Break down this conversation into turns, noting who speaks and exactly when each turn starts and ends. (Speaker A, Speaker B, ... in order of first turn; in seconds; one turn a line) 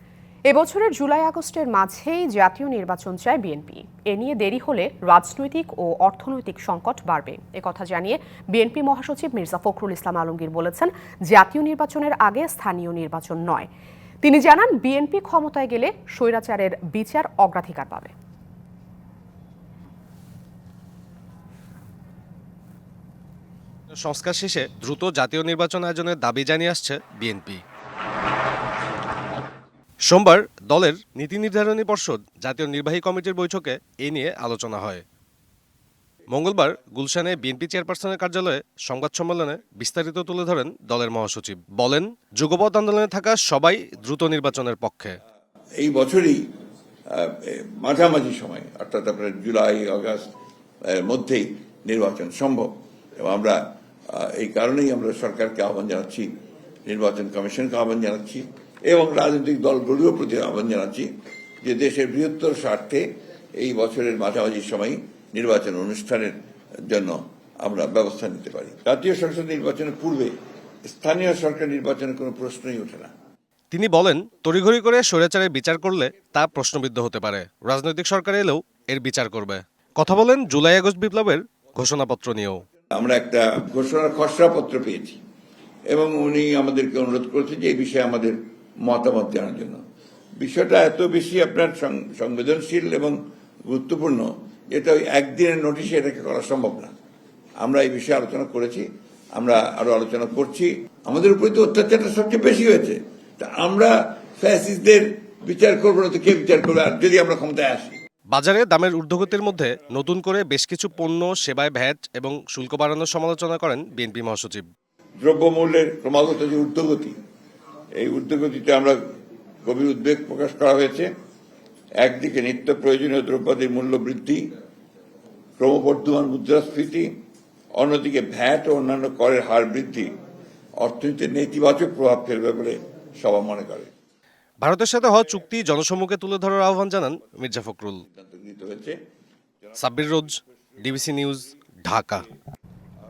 Speaker A: 0.5-13.7
Speaker A: 14.2-18.1
Speaker B: 24.0-27.6
Speaker B: 30.1-35.0
Speaker B: 36.3-45.2
Speaker C: 45.8-46.4
Speaker C: 47.1-50.2
Speaker C: 50.9-61.1
Speaker C: 61.6-63.0
Speaker C: 63.6-66.4
Speaker C: 66.9-70.3
Speaker C: 70.9-73.1
Speaker B: 73.7-82.6
Speaker C: 83.0-85.2
Speaker C: 85.9-89.8
Speaker C: 90.4-93.2
Speaker C: 93.7-96.9
Speaker C: 97.6-98.9
Speaker C: 99.4-108.0
Speaker B: 108.3-114.7
Speaker C: 115.2-117.2
Speaker C: 118.0-119.0
Speaker C: 119.7-121.1
Speaker C: 122.0-124.4
Speaker C: 125.6-127.2
Speaker C: 127.8-130.1
Speaker C: 130.8-133.9
Speaker B: 134.6-138.0
Speaker C: 138.1-139.0
Speaker B: 139.8-142.2